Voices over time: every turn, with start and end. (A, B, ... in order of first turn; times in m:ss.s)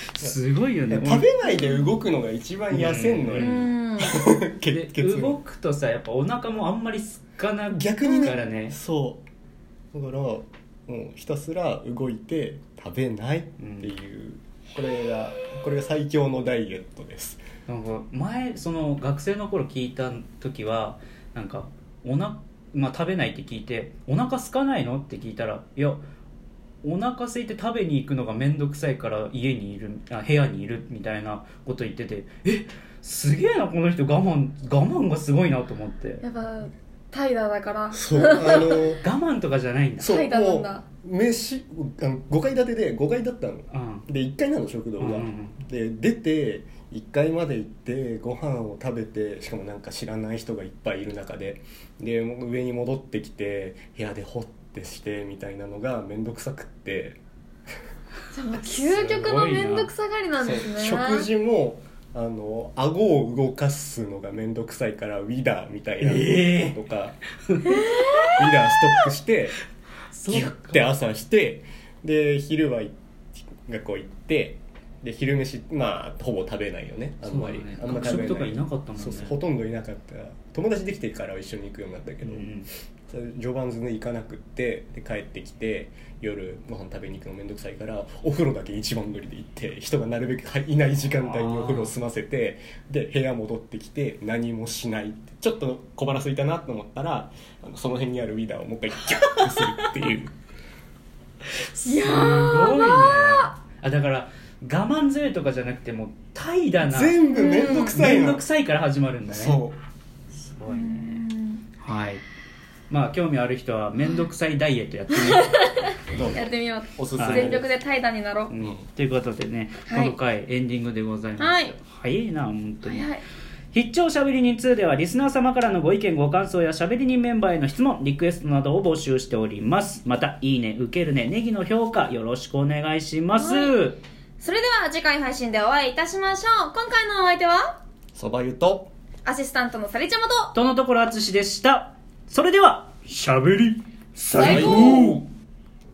0:00.1-0:01.3 A
0:00.9-0:05.4 B
0:01.5-0:01.9 C
0:02.7-0:03.7 A
0:03.4-0:04.2 C
0:04.7-0:08.8 A
0:07.7-0:09.2 B
0:08.0-0:08.4 C
0:09.9-0:17.4 B
0:13.6-0:13.9 A
0:17.7-0:26.0 A
0:26.8-0:36.2 A
0:36.2-0:39.0 C
0:37.9-0:39.0 B
0:39.0-0:40.2 A
0:40.0-0:57.2 B
0:40.0-0:40.8 C
0:43.7-0:44.1 A
0:45.0-0:45.6 A
0:58.3-1:01.3 C
0:58.8-0:59.9 A
1:00.4-1:07.2 B
1:06.0-1:06.8 A
1:07.5-1:08.5 A
1:07.7-1:08.5 C
1:08.3-1:09.6 B
1:10.1-1:10.8 A
1:10.3-1:13.0 B
1:13.6-1:22.5 B
1:17.2-1:19.4 A
1:22.2-1:22.7 A
1:23.1-1:40.3 B
1:31.2-1:32.0 A
1:39.3-1:39.9 A
1:41.5-1:49.6 A
1:41.8-1:43.5 C
1:46.8-1:48.5 B
1:47.3-1:47.9 C
1:49.3-1:49.8 B
1:50.3-1:51.2 A
1:50.7-1:51.6 C
1:51.8-1:52.2 A
1:52.9-1:55.6 A
1:55.3-1:55.8 C
1:56.1-1:57.7 B
1:56.3-1:58.5 C
1:57.2-1:57.6 A
1:58.5-2:03.1 A
1:59.9-2:00.1 C
2:01.4-2:01.7 C
2:02.8-2:03.2 C
2:03.7-2:14.0 A
2:13.4-2:13.8 C
2:14.4-2:17.8 C
2:18.1-2:18.9 B
2:19.2-2:20.5 C
2:20.5-2:25.2 A
2:24.3-2:25.2 B
2:24.3-2:25.2 C